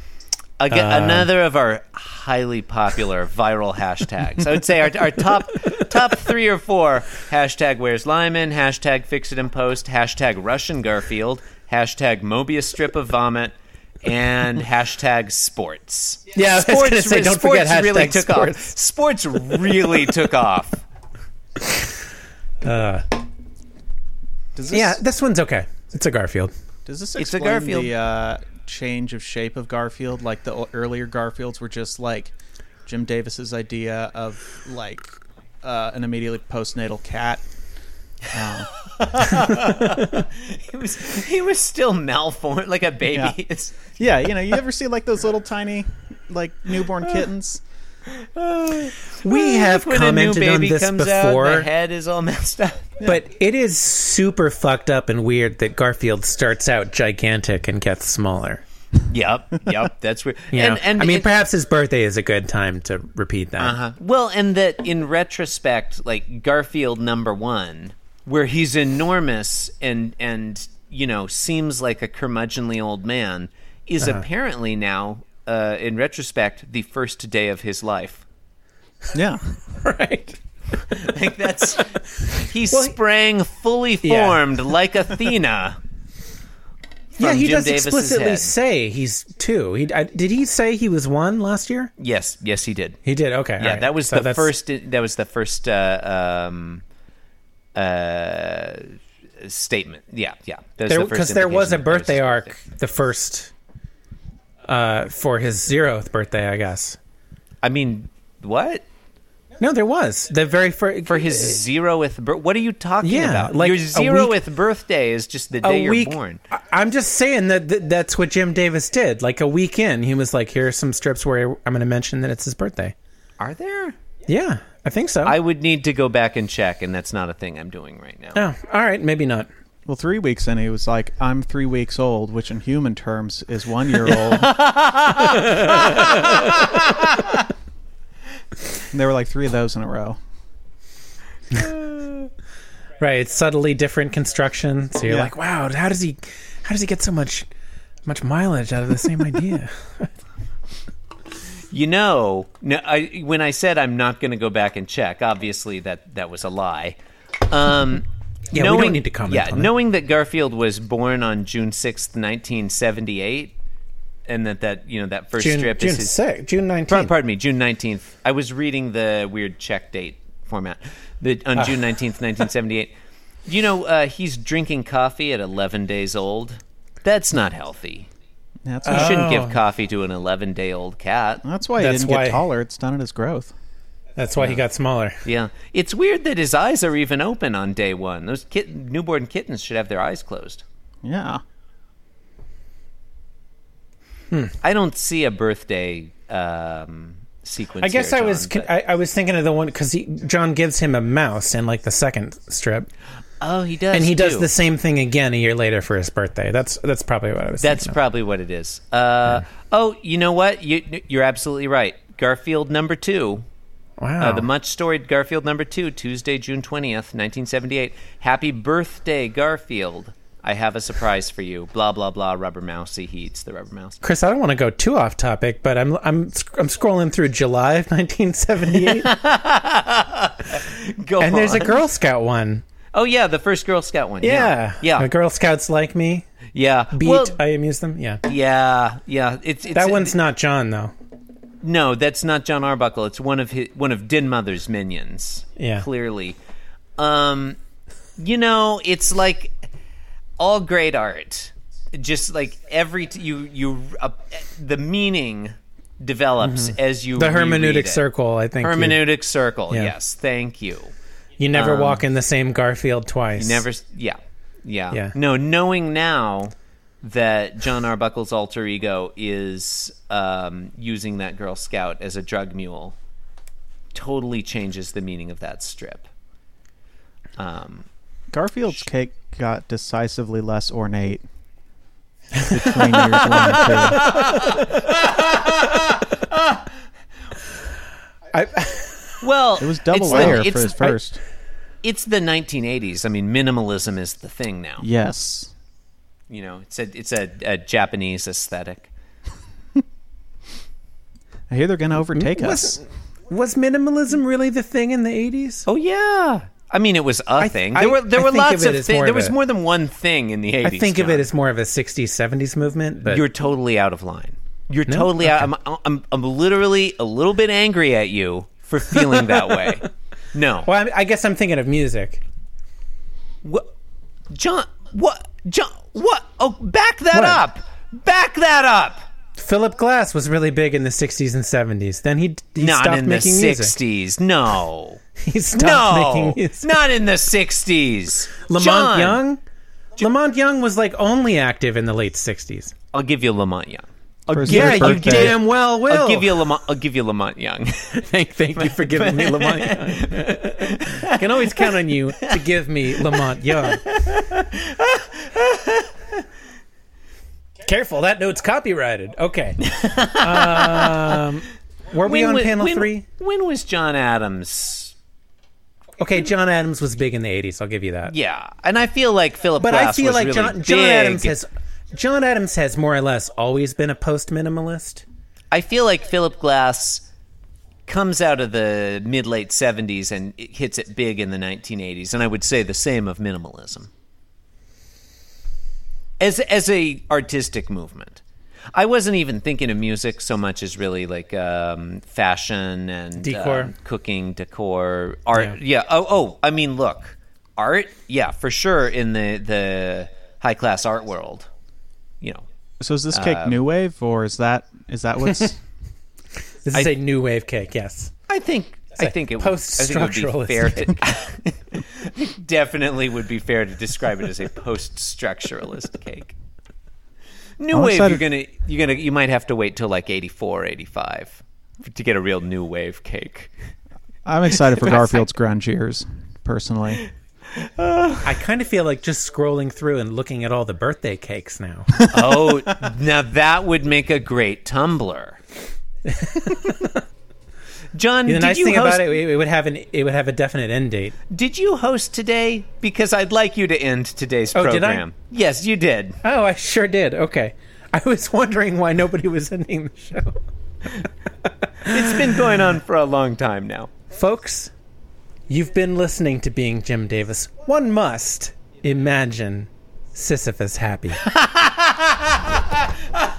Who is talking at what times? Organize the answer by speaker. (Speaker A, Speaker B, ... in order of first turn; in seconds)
Speaker A: 0.6-20.8, 27.2-27.9, 38.7-44.0, 48.1-53.0, 59.1-61.3, 63.6-78.2, 80.9-85.8, 87.2-88.5, 92.0-93.0, 93.6-96.8, 97.7-102.5, 107.6-108.8, 111.1-116.4, 123.4-123.9, 125.2-128.4, 134.1-137.2, 141.5-142.3, 151.7-156.9, 157.5-163.5, 164.3-166.2, 166.9-172.9, 173.4-178.1, 178.9-181.4, 185.2-190.6, 194.6-198.7, 203.4-204.5, 207.6-213.4, 214.2-224.0, 228.7-231.8, 232.9-235.1, 236.5-237.3, 238.2-240.1, 241.6-246.4, 247.0-247.6, 248.2-249.7, 250.4-258.0, 258.6-260.9, 261.5-262.0, 263.4-272.9, 273.9-276.1, 277.4-277.9, 283.3-285.8, 289.2-290.9, 291.8-294.9, 296.3-298.9, 305.6-311.3, 313.1-320.7, 324.3-329.0, 332.6-335.0, 335.5-339.2, 342.9-352.4, 353.1-355.9, 359.6-361.2, 362.0-364.9, 368.1-371.3, 375.5-377.1, 377.9-383.9, 386.2-388.2, 388.7-401.5, 403.1-403.6, 408.3-416.3, 417.6-423.5, 424.8-425.2, 427.0-428.4, 432.1-435.4, 437.9-439.2, 441.3-446.2, 451.9-453.9, 461.2-462.9
Speaker B: 0.7-1.3, 16.3-18.7, 22.6-23.1, 24.7-26.5, 49.2-51.7, 53.0-58.6, 60.5-63.8, 79.8-80.4, 81.7-82.9, 84.0-84.7, 87.2-91.9, 93.0-94.5, 100.9-103.5, 104.6-107.0, 109.6-111.6, 113.0-114.3, 115.6-122.9, 124.3-125.4, 128.3-129.5, 135.4-136.5, 143.0-147.4, 148.1-150.1, 158.5-159.7, 165.4-167.1, 178.8-179.6, 181.8-182.4, 184.2-185.2, 197.8-202.9, 203.9-207.9, 214.0-214.5, 224.0-229.1, 231.2-232.6, 234.2-236.2, 236.9-238.2, 239.7-240.9, 245.6-245.9, 256.4-259.1, 261.4-263.6, 288.3-289.2, 290.1-290.6, 302.1-305.6, 307.4-309.4, 310.6-313.2, 314.9-315.5, 319.3-319.8, 320.6-322.2, 327.1-327.4, 329.4-333.8, 335.2-336.7, 338.5-339.4, 340.0-342.7, 344.4-346.4, 347.9-353.8, 357.6-359.6, 360.1-363.0, 366.0-368.1, 369.6-375.0, 393.2-393.7, 406.6-408.1, 409.0-411.0, 428.2-432.1, 436.1-437.0, 438.2-441.1, 444.5-445.0, 446.2-450.4, 454.1-454.7, 455.5-461.2
Speaker C: 24.5-25.0, 26.9-32.3, 32.9-35.1, 35.6-37.5, 38.3-38.7, 43.1-43.4, 44.0-47.6, 79.1-79.4, 129.8-134.5, 138.9-140.2, 145.1-145.3, 178.6-179.2, 181.4-183.5, 191.0-191.4, 278.3-281.2, 282.5-284.2, 289.6-291.2, 294.8-295.5, 301.5-302.8, 344.3-345.4, 402.8-405.6, 417.7-418.2, 424.2-427.0, 432.0-432.6